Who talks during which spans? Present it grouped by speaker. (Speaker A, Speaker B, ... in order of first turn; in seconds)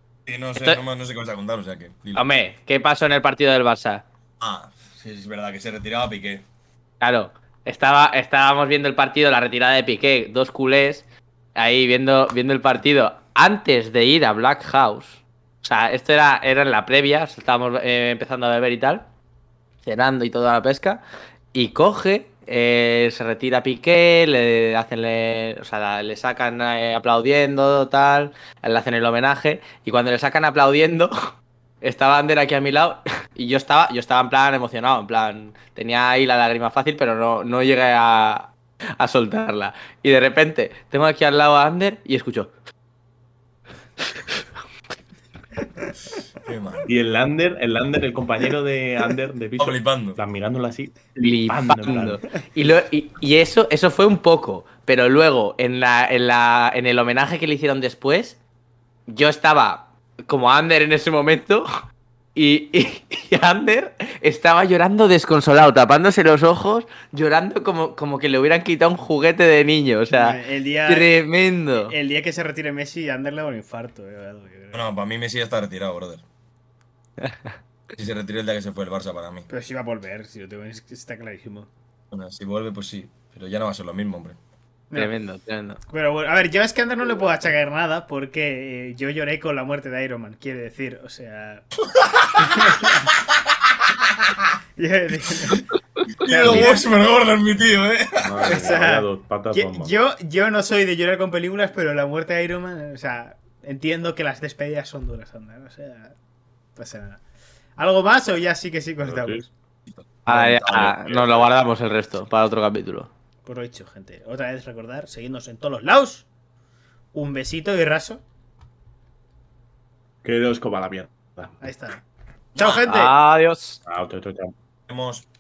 Speaker A: 0.3-2.3, 4.4-6.5, 46.4-46.9, 49.6-50.2, 74.7-76.2, 78.0-79.5, 82.1-84.4, 92.0-93.0, 96.1-98.6, 109.9-110.9, 124.9-125.3
Speaker B: 0.6-0.8, 2.1-4.0, 7.0-11.0, 11.6-19.1, 19.8-21.0, 21.5-31.1, 31.8-42.5, 51.2-58.4, 59.1-61.7, 62.4-71.9, 77.2-77.5, 84.9-85.8, 110.3-113.1, 122.6-123.8
Speaker C: 46.9-52.2, 98.2-99.9, 109.0-109.5, 110.3-111.5, 120.2-121.5, 123.8-124.5
Speaker D: 70.1-71.1, 71.8-74.9, 79.5-81.7, 85.9-91.7, 92.5-93.0, 94.8-95.6, 96.2-96.9, 98.4-106.2, 106.8-107.2, 107.8-109.5, 113.5-116.3, 117.1-118.2, 121.6-122.0, 122.6-123.2